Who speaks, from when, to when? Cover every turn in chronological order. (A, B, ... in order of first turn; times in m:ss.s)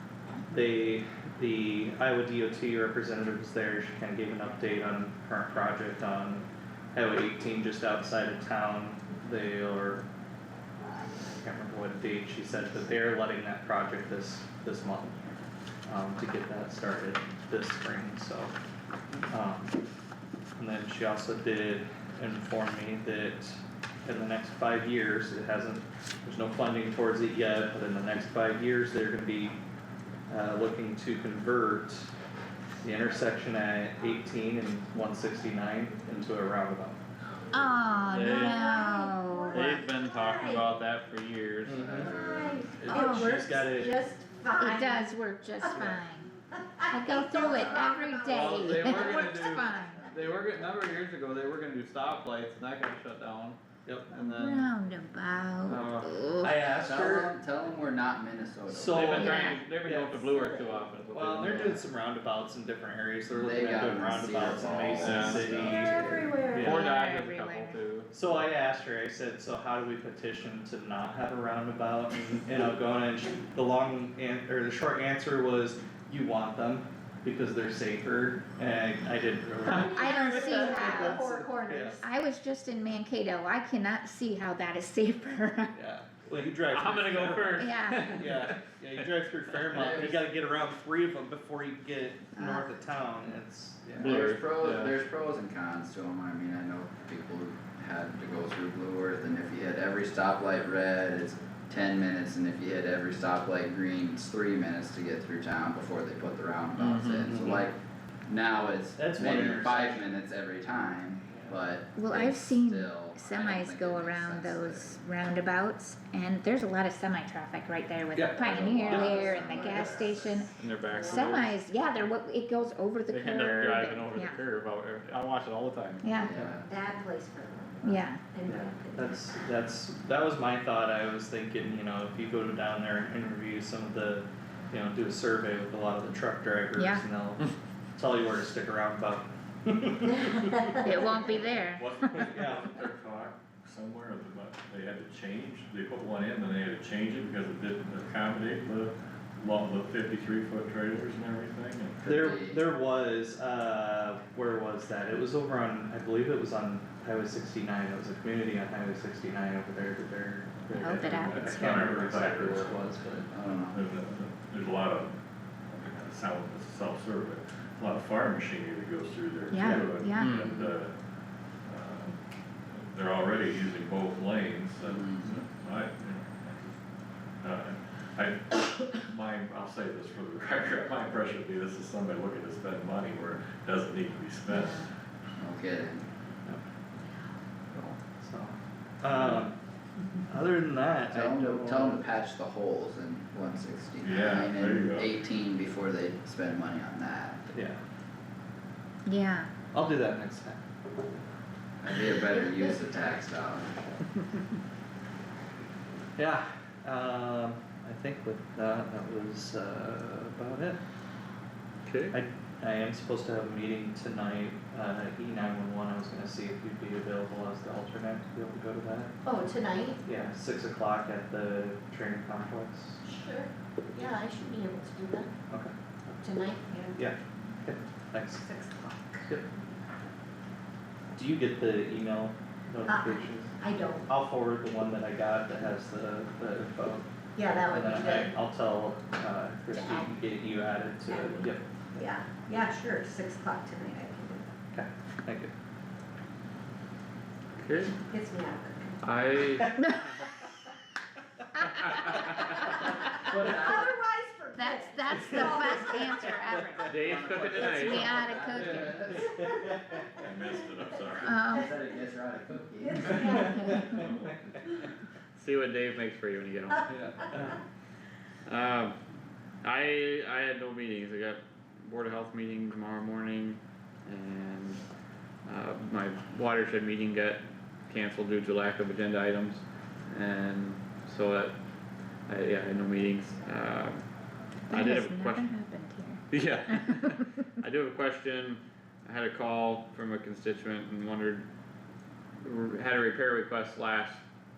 0:00.5-0:10.0 A
0:11.4-0:15.3 A
0:15.8-0:18.5 A
0:19.3-0:19.7 A
0:20.6-0:29.6 A
0:30.3-0:32.1 A
0:32.8-0:37.0 A
0:37.5-0:39.6 B
0:38.1-0:38.6 C
0:38.2-0:40.6 D
0:39.5-0:41.9 C
0:41.6-0:42.1 A
0:41.8-0:42.6 E
0:42.1-0:45.9 D
0:42.8-0:44.0 A
0:42.9-0:43.4 B
0:44.5-0:46.3 B
0:46.6-0:49.2 D
0:46.9-0:50.1 B
0:47.4-0:47.9 E
0:48.2-0:54.7 C
0:49.3-0:50.6 E
0:53.8-0:54.1 A
0:54.4-0:56.6 B
0:55.6-0:56.2 C
0:56.4-0:57.3 A
0:56.8-0:59.3 E
0:58.7-1:00.2 A
0:58.8-1:01.9 C
0:59.1-0:59.6 B
1:00.3-1:00.9 D
1:01.1-1:06.0 A
1:03.3-1:06.3 E
1:05.0-1:05.5 C
1:05.6-1:06.8 D
1:06.5-1:06.8 A
1:06.5-1:08.1 C
1:06.6-1:07.8 B
1:08.1-1:22.0 A
1:19.6-1:20.0 C
1:19.7-1:22.0 D
1:19.9-1:21.2 B
1:22.0-1:25.7 B
1:25.7-1:34.1 A
1:26.7-1:28.6 C
1:27.6-1:28.3 B
1:29.7-1:30.2 E
1:34.0-1:55.0 E
1:34.0-1:34.9 C
1:46.8-1:47.4 C
1:47.2-1:47.6 A
1:49.0-1:50.1 A
1:51.3-1:51.6 A
1:51.9-2:04.4 B
1:58.1-1:59.3 A
1:58.3-2:00.4 E
2:00.6-2:01.5 C
2:03.1-2:06.5 C
2:06.0-2:06.4 B
2:06.1-2:06.7 E
2:06.6-2:09.1 D
2:07.8-2:08.2 B
2:08.9-2:21.0 A
2:16.8-2:17.0 B
2:20.8-2:22.3 B
2:21.7-2:32.2 F
2:22.3-2:22.7 A
2:32.0-2:32.7 E
2:32.0-2:43.3 A
2:40.8-2:41.5 B
2:40.9-2:42.8 F
2:43.3-2:43.8 E
2:43.5-2:45.1 F
2:45.7-2:50.9 F
2:49.5-2:50.4 B
2:50.2-2:50.5 C
2:50.3-2:50.7 E
2:51.6-2:52.2 F
2:52.7-2:56.8 F
2:54.8-2:55.4 E
2:57.4-3:04.9 F
3:05.4-3:06.0 E
3:07.8-3:09.5 A
3:09.1-3:09.5 F
3:10.3-3:12.0 A
3:11.1-3:17.4 E
3:14.0-3:15.1 F
3:17.5-3:17.8 A
3:19.0-3:19.5 B
3:19.7-3:20.6 A
3:21.8-3:23.7 E
3:26.2-3:30.8 A
3:31.8-3:32.2 C
3:32.1-3:39.2 A
3:39.2-3:40.0 D
3:40.0-3:43.0 A
3:43.0-3:45.3 D
3:45.5-3:46.2 A
3:46.2-3:47.0 D
3:46.9-3:48.4 A
3:48.4-3:49.3 D
3:51.1-3:53.5 A
3:52.8-3:54.1 D
3:54.0-3:57.1 A
3:57.4-3:58.3 D
3:57.7-4:01.8 A
3:59.7-4:00.1 D
4:01.1-4:04.5 D
4:04.7-4:05.5 A
4:07.6-4:08.0 C
4:08.1-4:09.0 D
4:09.0-4:09.8 C
4:09.8-4:10.2 B
4:11.6-4:11.9 B
4:11.9-4:12.3 C
4:12.8-4:13.9 E
4:13.3-4:16.2 D
4:14.6-4:16.9 B
4:16.8-4:18.2 C
4:16.9-4:19.4 E
4:17.7-4:19.0 B
4:19.4-4:20.0 A
4:20.2-4:21.5 F
4:21.2-4:21.7 B
4:21.5-4:23.4 E
4:22.8-4:24.0 D
4:23.3-4:24.0 A
4:23.4-4:23.8 B
4:23.9-4:24.3 F
4:25.4-4:27.5 C
4:27.3-4:27.6 A
4:28.4-4:29.0 C
4:29.6-4:34.8 C
4:35.4-4:41.6 C
4:42.3-4:44.1 C
4:44.7-4:45.5 C
4:44.7-4:47.0 B
4:46.3-4:51.4 C
4:52.4-4:54.2 C